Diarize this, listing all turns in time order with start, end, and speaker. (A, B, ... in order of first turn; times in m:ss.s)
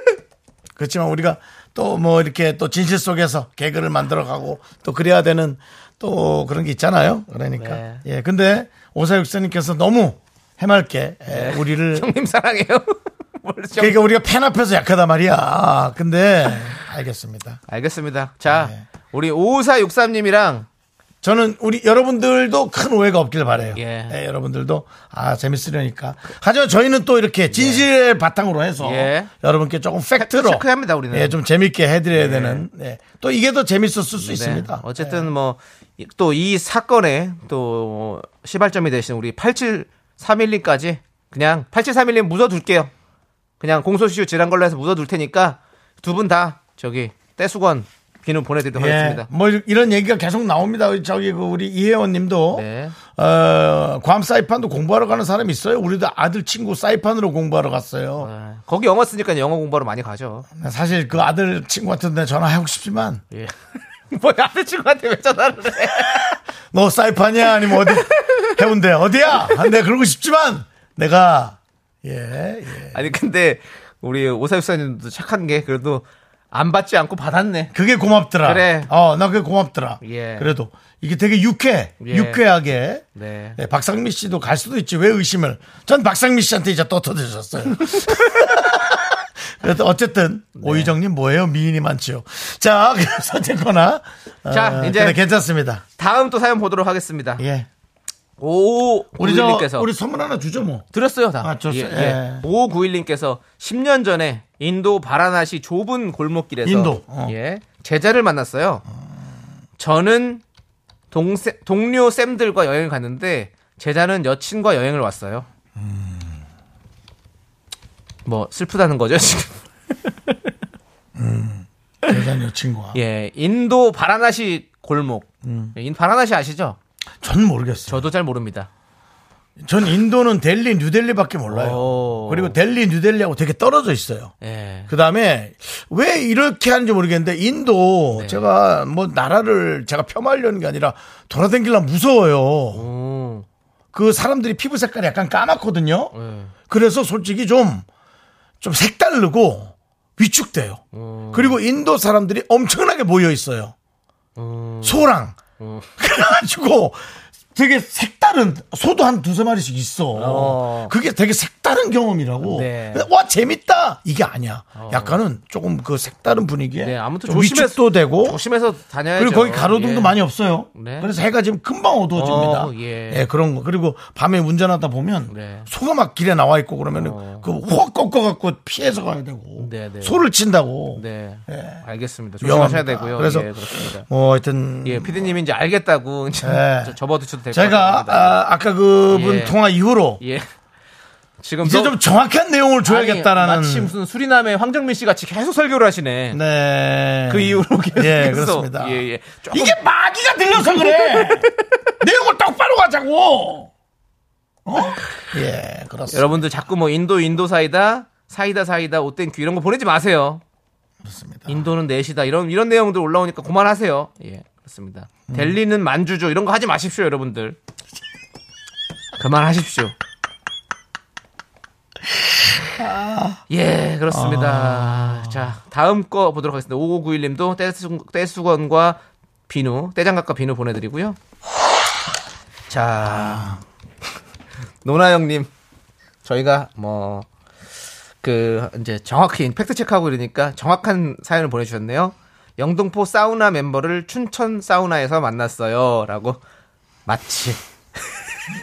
0:00.8-0:12.1 A
0:07.6-0:08.0 B
0:11.3-0:14.0 B
0:13.8-0:17.6 A
0:17.7-0:20.7 B
0:18.5-0:18.8 A
0:21.2-0:35.3 A
0:23.7-0:24.2 B
0:27.5-0:27.9 B
0:28.8-0:29.3 B
0:30.2-0:31.4 B
0:32.1-0:32.7 B
0:34.2-0:42.9 B
0:43.6-0:49.3 B
0:48.8-0:58.3 A
0:52.5-0:53.0 B
0:58.2-1:00.5 B
1:00.6-1:03.2 A
1:03.3-1:03.6 B
1:04.1-1:06.4 B
1:06.1-1:13.0 A
1:07.7-1:08.5 B
1:12.9-1:17.7 B
1:17.7-1:23.0 A
1:18.4-1:18.9 B
1:20.0-1:20.5 B
1:22.0-1:22.4 B
1:23.2-1:23.6 B
1:23.6-1:35.8 A
1:27.8-1:28.5 B
1:30.6-1:30.9 B
1:34.5-1:35.2 B
1:36.0-1:37.4 B
1:37.4-1:37.7 A
1:38.4-1:39.9 B
1:39.2-1:40.9 A
1:40.9-1:48.8 B
1:41.4-1:42.4 A
1:46.6-1:47.3 A
1:49.8-1:50.4 B
1:51.1-1:55.5 B
1:55.8-1:56.4 A
1:58.2-1:59.6 B
2:01.2-2:03.0 A
2:02.9-2:06.8 B
2:05.4-2:05.8 A
2:07.2-2:08.1 A
2:07.9-2:08.7 B
2:09.6-2:14.3 A
2:11.5-2:12.6 B
2:14.4-2:14.9 B
2:14.9-2:22.8 A
2:18.1-2:18.4 B
2:22.7-2:23.5 B
2:23.9-2:26.1 A
2:26.1-2:26.5 B
2:26.7-2:27.9 A
2:28.6-2:33.7 A
2:30.9-2:31.6 B
2:34.4-2:35.1 B
2:34.8-2:35.4 A
2:35.6-2:35.9 B
2:36.0-2:37.0 A
2:37.5-2:48.4 A
2:40.2-2:40.9 B
2:42.4-2:43.1 B
2:44.8-2:45.2 B
2:46.8-2:50.2 B
2:49.2-3:01.8 A
2:50.8-2:51.1 B
2:52.2-2:53.3 B
2:55.3-2:55.7 B
2:56.9-2:57.5 B
2:59.6-3:00.2 B
3:01.0-3:04.1 B
3:02.4-3:05.4 A
3:04.8-3:08.4 B
3:06.4-3:07.0 A
3:07.5-3:10.2 A
3:09.1-3:09.6 B
3:10.2-3:10.5 B
3:11.4-3:12.0 B
3:11.6-3:13.9 A
3:12.8-3:16.4 B
3:16.3-3:23.7 A
3:17.3-3:19.8 B
3:20.6-3:21.5 B
3:24.7-3:26.4 A
3:26.1-3:30.4 B
3:31.0-3:31.7 A
3:31.5-3:37.6 B
3:35.3-3:35.6 A
3:39.2-3:40.0 B
3:42.7-3:43.4 A
3:43.5-3:51.2 B
3:44.1-3:45.5 A
3:52.7-3:53.6 B
3:53.0-3:53.6 A
3:54.8-3:55.5 B
3:56.2-3:57.3 B
3:58.2-4:06.4 B
4:07.1-4:07.6 B